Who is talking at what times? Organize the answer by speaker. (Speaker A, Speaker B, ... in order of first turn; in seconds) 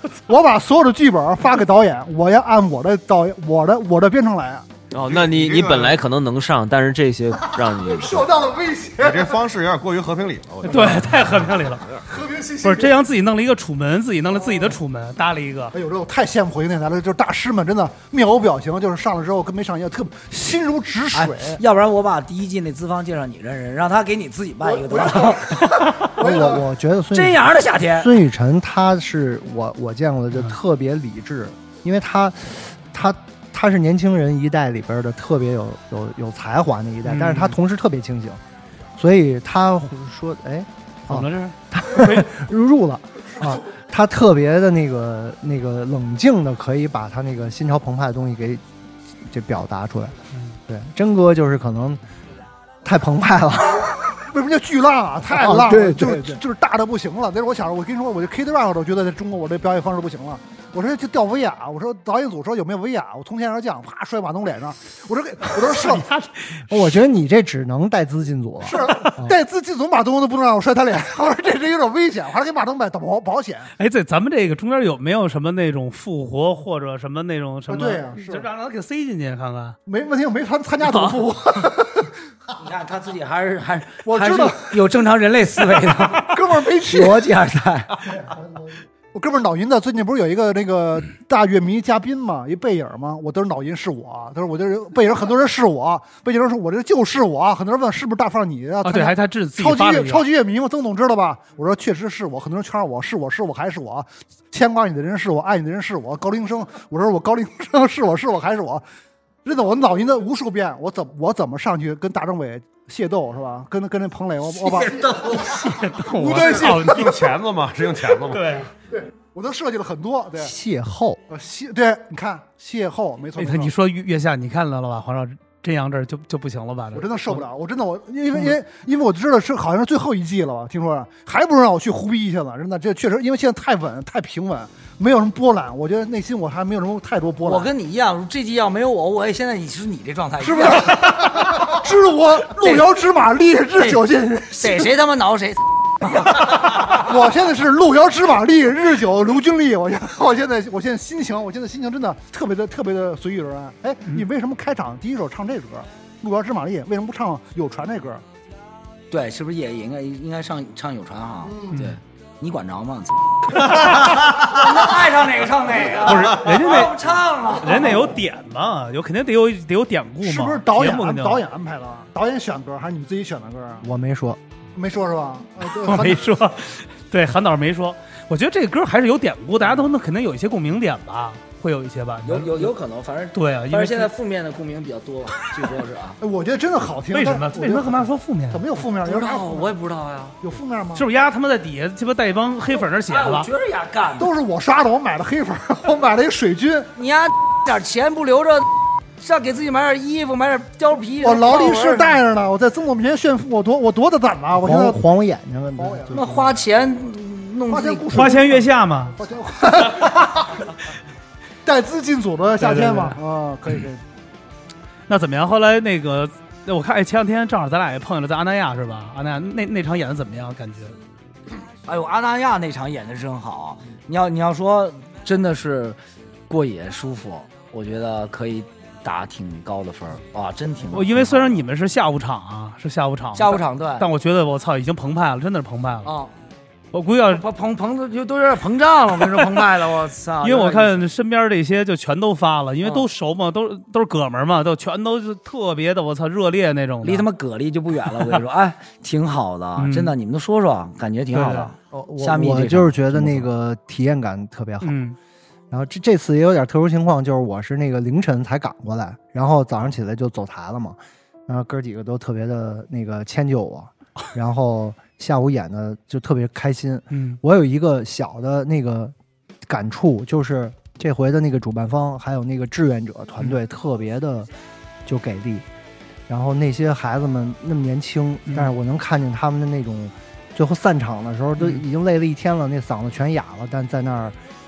Speaker A: 0.1-4.7, 7.6-9.4, 12.1-13.0, 14.4-14.7, 15.7-21.6, 24.6-26.6, 54.2-66.1, 68.6-73.7, 77.7-78.4, 79.8-82.1, 84.0-84.8, 85.7-87.3, 88.2-108.8, 109.4-115.4, 116.2-117.2, 118.9-120.5, 121.3-123.7, 126.9-137.7, 140.4-144.9, 146.4-158.2, 161.4-161.8, 170.2-173.8, 174.7-176.3, 186.2-189.7, 190.4-191.1, 194.2-196.9, 201.2-205.0, 205.8-206.2, 207.7-210.6, 211.6-214.0
Speaker B: 4.9-8.3
Speaker C: 5.0-6.0, 9.0-12.0, 114.6-115.6, 116.2-118.6
Speaker D: 10.6-11.8, 12.6-15.7, 37.0-37.6, 41.1-42.3, 50.3-50.6, 65.6-66.6, 73.8-79.8, 80.9-81.1, 98.8-100.2, 115.4-117.3, 118.3-118.7, 123.4-127.4, 161.7-162.0, 166.0-167.0, 167.6-171.4, 175.8-182.7, 183.3-184.1, 187.1-188.6, 190.9-193.5, 208.1-209.2, 212.6-213.2, 215.1-220.9, 230.9-236.1, 236.9-237.4, 240.4-247.3, 249.8-250.1, 251.3-251.7, 254.8-255.2, 267.1-267.4, 278.5-278.7, 281.6-281.8
Speaker E: 21.1-26.1, 27.1-28.2, 82.6-88.0, 137.4-141.7, 142.5-142.9, 143.8-144.0, 144.6-147.0, 159.1-168.1, 182.2-186.2, 189.0-190.4, 193.1-194.3, 196.9-202.2, 206.1-208.3, 221.8-231.6, 233.3-234.1, 236.0-236.3, 237.3-241.0, 247.0-253.5
Speaker F: 26.1-27.4, 28.0-38.4, 39.0-48.6, 49.3-50.1, 50.7-52.0, 52.8-53.9, 55.3-56.4, 66.7-69.3, 120.4-121.2, 173.8-174.4, 204.5-206.5, 252.1-255.0, 255.7-269.1, 269.7-274.5, 275.0-275.6, 276.3-284.4